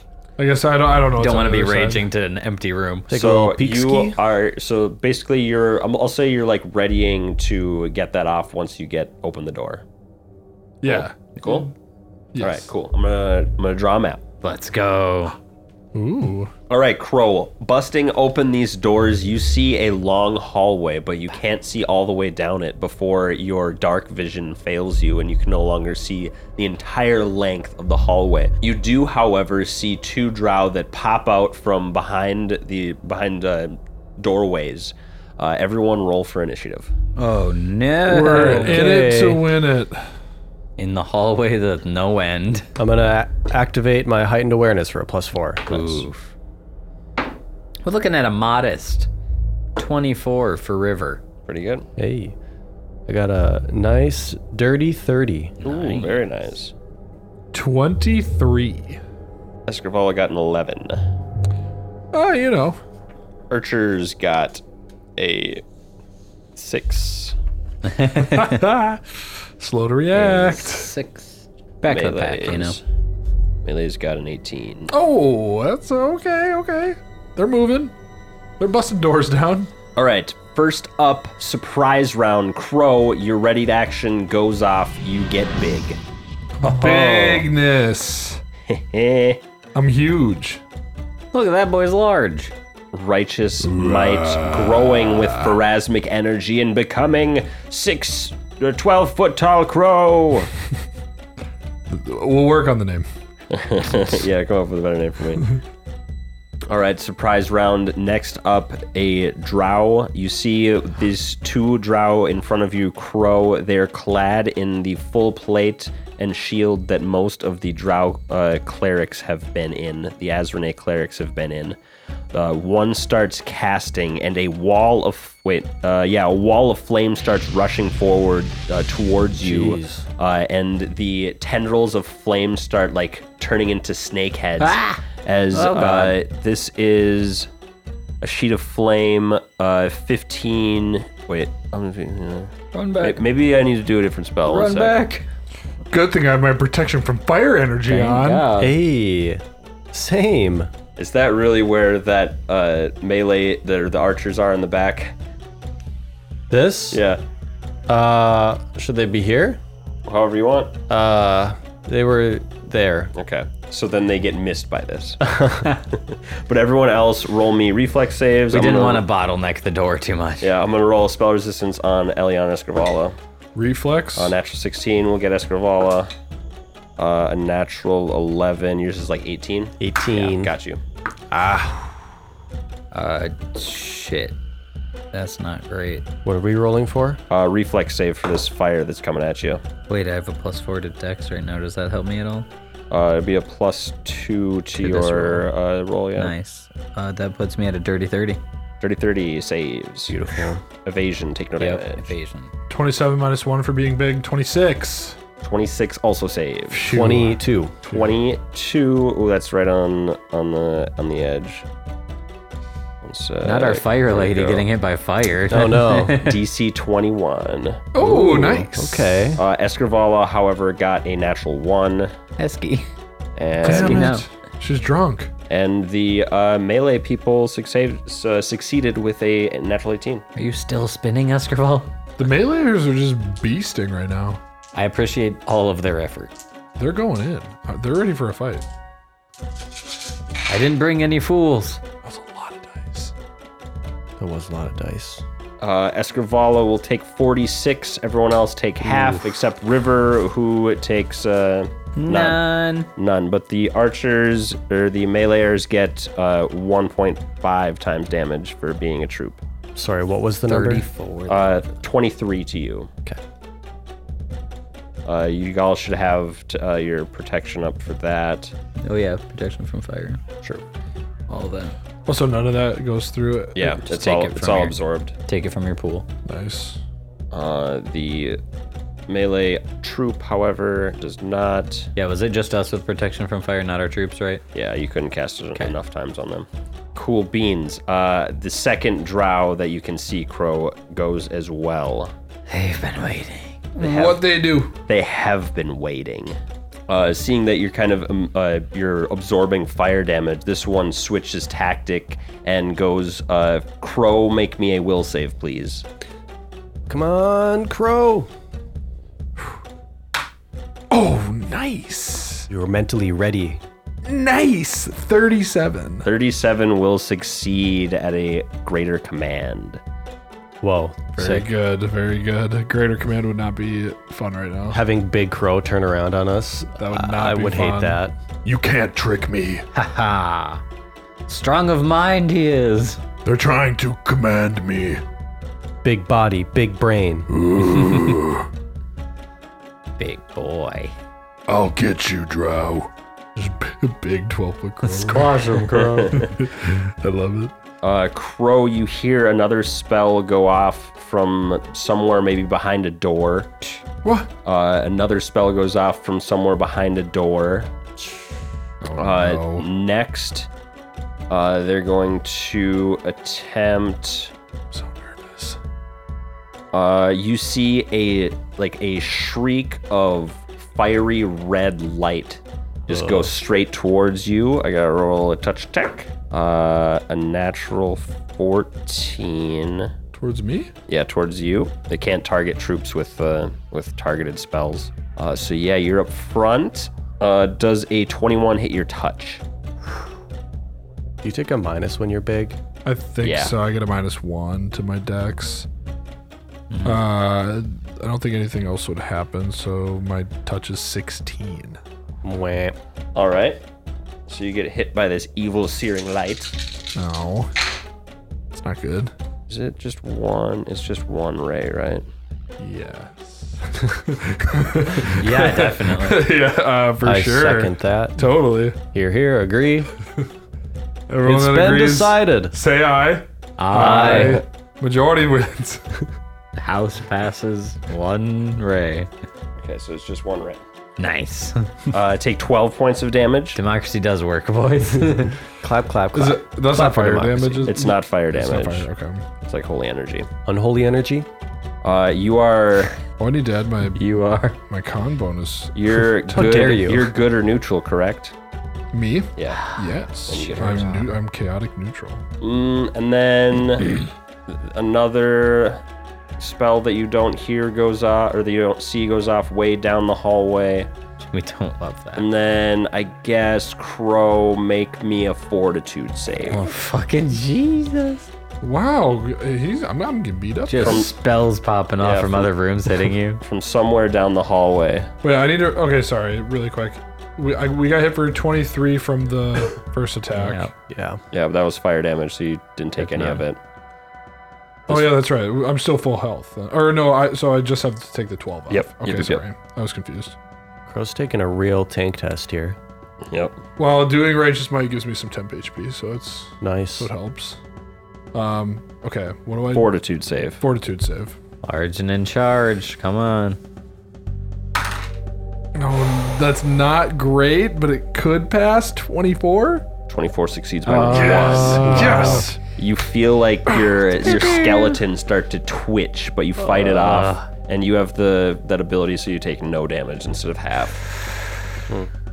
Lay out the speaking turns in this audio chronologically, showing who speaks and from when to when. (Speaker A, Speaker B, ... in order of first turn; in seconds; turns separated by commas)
Speaker A: 0.4-2.1, Speaker B: 1.2-3.1, Speaker C: 3.1-4.2, Speaker D: 3.1-9.8, Speaker A: 10.8-11.7, Speaker D: 10.8-11.7, Speaker A: 12.3-12.7, Speaker D: 12.4-14.2, Speaker B: 14.4-15.4, Speaker A: 15.9-16.5, Speaker D: 16.7-36.9, Speaker B: 37.2-38.9, Speaker A: 38.1-40.0, Speaker C: 38.3-39.5, Speaker B: 40.8-42.7, Speaker C: 42.8-46.1, Speaker B: 45.7-46.3, Speaker B: 47.9-49.1, Speaker B: 49.8-51.2, Speaker D: 51.5-51.9, Speaker C: 52.0-52.4, Speaker C: 53.1-55.5, Speaker B: 55.6-56.2, Speaker D: 55.6-56.7, Speaker A: 57.5-59.0, Speaker D: 59.7-61.0, Speaker A: 62.1-62.8, Speaker D: 63.5-64.6, Speaker D: 65.2-65.6, Speaker D: 66.6-67.3, Speaker B: 67.8-68.6, Speaker A: 68.2-70.9, Speaker D: 70.2-70.6, Speaker B: 70.2-72.8, Speaker D: 71.9-72.8, Speaker D: 73.7-74.9, Speaker A: 74.9-77.9, Speaker A: 78.6-79.7, Speaker D: 80.0-86.0, Speaker B: 86.6-87.5, Speaker A: 86.6-88.4, Speaker D: 88.7-89.4, Speaker A: 89.7-90.6, Speaker B: 91.3-92.5, Speaker D: 92.9-100.5, Speaker A: 93.6-95.6, Speaker A: 101.9-103.1, Speaker D: 103.5-105.5, Speaker D: 106.7-121.8, Speaker D: 122.3-137.5, Speaker C: 129.4-130.1, Speaker B: 134.6-136.2, Speaker D: 138.2-145.0, Speaker B: 142.7-143.2, Speaker B: 144.5-145.3, Speaker A: 145.9-148.5, Speaker B: 147.9-148.8, Speaker C: 148.6-150.7, Speaker D: 151.0-155.2, Speaker C: 156.5-157.0, Speaker D: 156.9-157.2, Speaker C: 157.9-159.6, Speaker D: 160.1-160.7, Speaker C: 160.9-163.1, Speaker D: 163.2-165.2, Speaker C: 165.2-165.7, Speaker D: 165.9-169.1, Speaker B: 168.5-170.5, Speaker D: 170.4-173.2, Speaker A: 173.6-174.3, Speaker D: 174.2-176.1, Speaker D: 177.0-180.8, Speaker C: 179.8-180.5, Speaker C: 181.3-181.9, Speaker B: 182.9-184.4, Speaker B: 185.1-186.1, Speaker C: 186.2-187.2, Speaker D: 187.3-189.6, Speaker B: 189.9-192.5, Speaker D: 192.9-196.3, Speaker B: 194.8-195.4, Speaker B: 196.2-198.4, Speaker D: 198.8-202.1, Speaker C: 200.1-200.6, Speaker B: 201.6-202.5, Speaker A: 202.7-205.2, Speaker D: 205.4-207.0, Speaker A: 206.7-207.4, Speaker C: 206.9-207.8, Speaker D: 207.8-211.7, Speaker D: 213.0-214.7, Speaker B: 213.4-216.4, Speaker C: 215.5-216.2, Speaker D: 216.2-217.9, Speaker A: 217.9-219.2, Speaker C: 218.0-219.4, Speaker D: 219.4-222.1, Speaker B: 222.4-222.9, Speaker D: 223.4-224.1, Speaker A: 223.6-225.3, Speaker B: 223.6-224.3, Speaker D: 225.5-230.2, Speaker B: 230.3-231.9, Speaker A: 232.2-234.4, Speaker B: 234.7-236.3, Speaker A: 236.8-238.7, Speaker B: 240.5-241.8, Speaker A: 242.0-243.1, Speaker C: 244.2-245.2, Speaker D: 245.6-252.4, Speaker B: 252.0-252.9, Speaker D: 253.0-259.4, Speaker C: 259.8-260.9, Speaker B: 260.5-261.7, Speaker D: 261.3-262.9, Speaker D: 265.1-268.5, Speaker B: 268.8-270.2, Speaker B: 271.3-271.8, Speaker A: 272.1-273.8, Speaker D: 273.6-275.2, Speaker B: 273.9-276.1, Speaker A: 276.3-276.8, Speaker D: 277.3-278.4, Speaker D: 279.1-281.9, Speaker B: 282.0-284.4, Speaker D: 284.5-292.1, Speaker B: 292.5-293.7, Speaker A: 293.8-294.8, Speaker D: 293.8-294.2, Speaker D: 294.9-296.4, Speaker D: 296.9-305.9, Speaker C: 306.9-308.3, Speaker A: 310.9-312.5, Speaker C: 312.5-313.6, Speaker A: 314.1-316.1, Speaker D: 316.0-319.8, Speaker C: 320.6-321.5, Speaker A: 321.2-324.8, Speaker C: 324.7-328.1, Speaker A: 326.8-329.6, Speaker B: 329.7-330.6, Speaker B: 331.3-333.0, Speaker A: 333.2-335.0, Speaker C: 335.8-337.3, Speaker A: 337.3-338.5, Speaker B: 340.0-340.9, Speaker A: 341.5-347.5, Speaker B: 344.8-346.3, Speaker D: 345.9-346.3, Speaker D: 347.8-353.5, Speaker A: 354.0-354.3, Speaker D: 354.4-357.7, Speaker A: 358.8-359.7, Speaker D: 359.0-360.5, Speaker D: 361.3-364.3, Speaker A: 364.7-365.6, Speaker D: 366.7-379.9, Speaker C: 372.9-373.3, Speaker A: 380.1-380.7, Speaker D: 380.9-389.4, Speaker C: 391.2-392.6, Speaker A: 392.9-395.7, Speaker D: 393.2-393.5, Speaker B: 396.7-397.0, Speaker A: 396.9-401.8, Speaker C: 402.2-402.8, Speaker D: 403.1-403.6, Speaker D: 404.3-406.6, Speaker A: 406.9-407.5, Speaker A: 408.5-409.1, Speaker D: 409.5-412.1, Speaker A: 412.6-418.8, Speaker B: 415.1-416.3, Speaker C: 417.0-418.2, Speaker C: 418.9-419.9, Speaker A: 421.1-426.1, Speaker C: 421.2-422.5, Speaker B: 423.6-424.4, Speaker C: 424.0-424.3, Speaker B: 426.6-429.1, Speaker D: 429.6-430.6, Speaker B: 431.0-431.7, Speaker D: 431.9-433.6, Speaker B: 433.6-435.4, Speaker C: 435.6-437.7, Speaker A: 436.1-439.2, Speaker D: 437.6-438.9, Speaker D: 439.4-440.3, Speaker C: 440.5-441.3, Speaker D: 441.8-443.0, Speaker A: 443.2-444.1, Speaker B: 443.9-444.6, Speaker A: 444.7-446.7, Speaker D: 445.8-448.3, Speaker C: 446.3-447.1, Speaker A: 448.9-452.2, Speaker D: 449.4-449.6, Speaker B: 449.5-449.9, Speaker D: 450.3-451.1, Speaker B: 450.6-450.9, Speaker D: 452.4-455.8, Speaker D: 456.4-460.9, Speaker B: 461.3-462.3, Speaker D: 462.2-466.6, Speaker B: 466.5-468.3, Speaker A: 468.6-471.1, Speaker B: 470.7-473.4, Speaker D: 470.8-471.1, Speaker D: 472.0-472.5, Speaker D: 473.4-475.1, Speaker A: 475.2-480.7, Speaker B: 480.4-480.7, Speaker C: 480.9-481.2, Speaker D: 481.3-483.6, Speaker B: 483.0-483.4, Speaker D: 484.9-485.1, Speaker A: 484.9-490.4, Speaker D: 488.7-489.4, Speaker C: 490.9-492.8, Speaker D: 493.3-493.6, Speaker A: 493.8-497.6, Speaker C: 496.6-497.1, Speaker A: 498.3-499.9, Speaker D: 499.7-500.6, Speaker A: 500.6-501.4, Speaker B: 501.6-503.6, Speaker A: 505.8-509.9, Speaker D: 510.1-521.0, Speaker B: 510.9-512.5, Speaker A: 511.0-512.6, Speaker C: 511.8-512.4, Speaker A: 513.8-514.8, Speaker B: 514.3-514.7, Speaker B: 516.6-517.5